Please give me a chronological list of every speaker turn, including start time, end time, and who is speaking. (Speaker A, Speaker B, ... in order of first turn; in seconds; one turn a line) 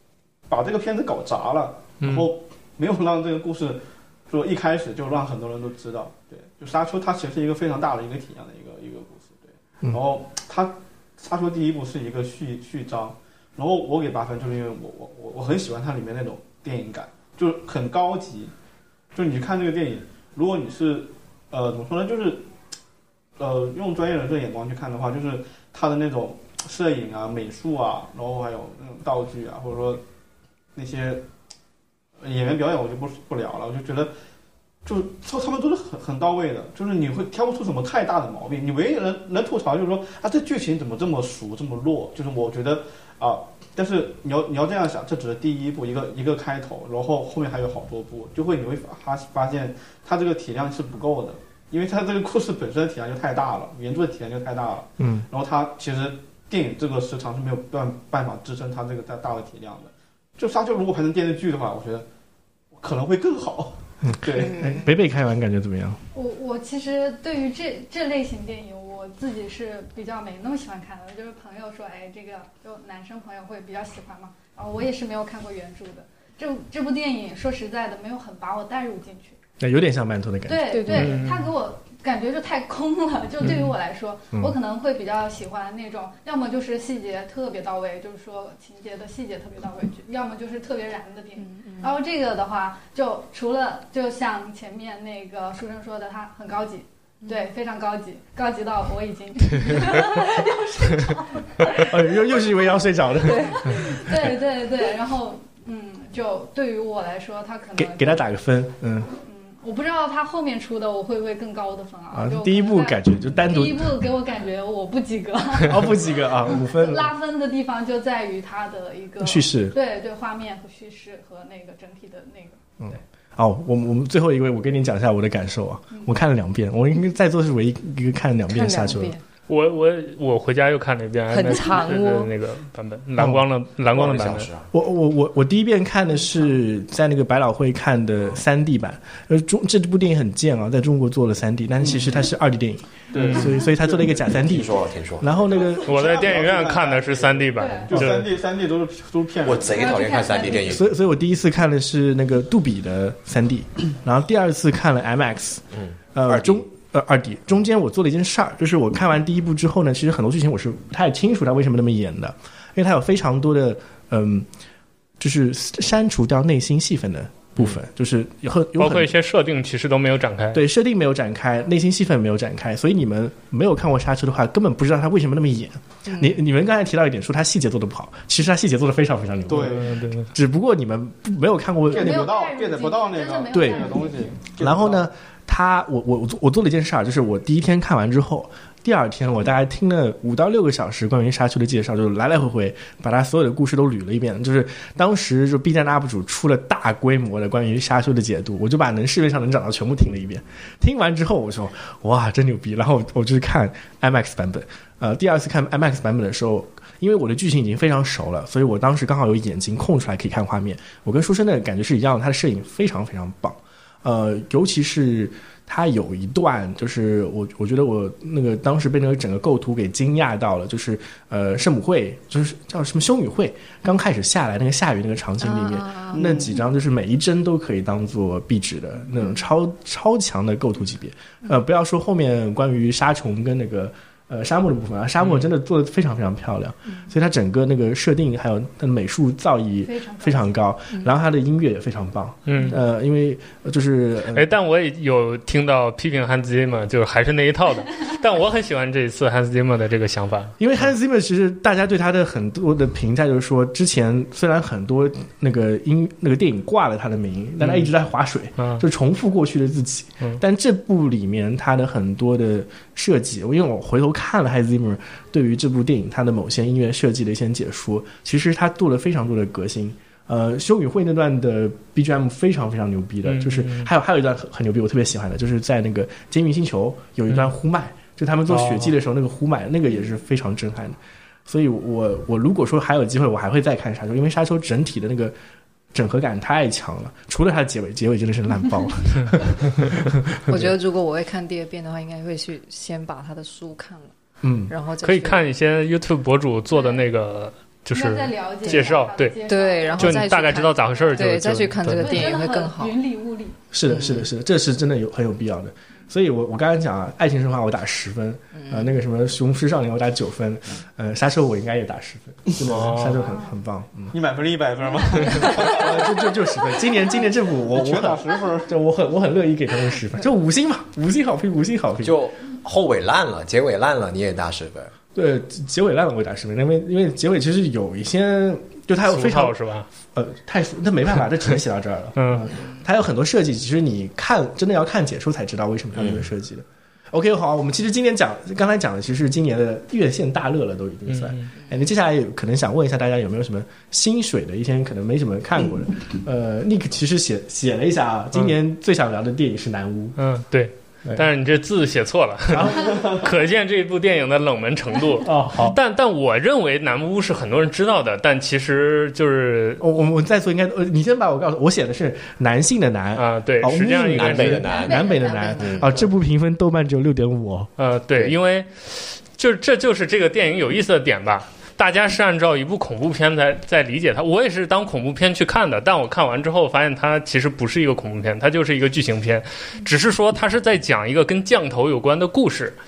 Speaker A: 0.5-18.5
Speaker B: 2.0-2.3
Speaker A: 19.1-22.5
Speaker A: 23.4-30.0
Speaker A: 30.8-31.2
Speaker A: 32.2-34.1
Speaker A: 34.9-62.1
Speaker C: 55.0-55.3
Speaker A: 62.8-64.7
Speaker C: 64.0-66.0
Speaker D: 66.1-79.4
Speaker C: 79.6-81.1
Speaker D: 80.5-102.5
Speaker E: 80.7-81.2
Speaker B: 80.9-81.5
Speaker E: 91.4-92.0
Speaker C: 101.8-104.1
Speaker D: 103.2-108.3
Speaker E: 103.2-103.7
Speaker C: 107.8-109.1
Speaker D: 109.2-122.6
Speaker C: 112.1-114.1
Speaker C: 115.6-117.1
Speaker C: 119.2-119.8
Speaker C: 122.8-129.2
Speaker E: 128.5-129.2
Speaker B: 129.5-134.5
Speaker E: 131.3-132.3
Speaker C: 133.2-133.4
Speaker F: 133.9-134.7
Speaker C: 134.7-146.0
Speaker A: 143.1-144.2
Speaker B: 143.2-143.5
Speaker F: 144.4-145.3
Speaker A: 145.5-150.4
Speaker B: 145.8-148.3
Speaker D: 147.6-147.9
Speaker F: 149.4-150.9
Speaker D: 149.7-150.7
Speaker C: 150.5-164.5
Speaker F: 155.8-156.6
Speaker C: 165.2-169.1
Speaker B: 168.8-170.6
Speaker C: 170.5-182.3
Speaker E: 176.1-176.4
Speaker A: 179.5-180.0
Speaker B: 179.6-180.3
Speaker A: 181.9-185.1
Speaker D: 181.9-184.2
Speaker C: 183.5-184.0
Speaker C: 184.6-244.5
Speaker E: 225.4-226.3
Speaker A: 226.1-226.6
Speaker B: 235.2-235.5
Speaker D: 239.8-240.6
Speaker B: 242.5-242.8
Speaker B: 244.3-250.6
Speaker C: 250.6-285.3
Speaker B: 257.6-257.9
Speaker B: 258.6-258.9
Speaker B: 273.3-273.9
Speaker B: 278.5-278.9
Speaker C: 285.9-290.7
Speaker E: 290.5-294.1
Speaker C: 294.4-294.7
Speaker E: 294.7-295.5
Speaker B: 295.0-299.4
Speaker D: 296.7-297.0
Speaker D: 297.9-301.3
Speaker E: 299.5-303.0
Speaker B: 300.0-302.1
Speaker D: 301.9-303.6
Speaker C: 303.7-314.1
Speaker E: 303.9-304.3
Speaker E: 308.5-308.9
Speaker B: 312.6-313.2
Speaker D: 313.2-313.5
Speaker A: 314.1-316.1
Speaker C: 315.3-322.2
Speaker A: 317.7-318.7
Speaker F: 322.0-324.9
Speaker C: 325.1-329.6
Speaker B: 329.0-329.9
Speaker C: 330.1-350.2
Speaker B: 332.2-332.5
Speaker F: 336.0-336.2
Speaker B: 341.1-341.5
Speaker B: 350.2-359.8
Speaker C: 352.5-353.2
Speaker C: 355.2-355.8
Speaker C: 359.8-367.7
Speaker B: 363.2-364.7
Speaker F: 364.1-366.0
Speaker D: 364.9-365.6
Speaker E: 365.1-365.9
Speaker B: 367.8-382.8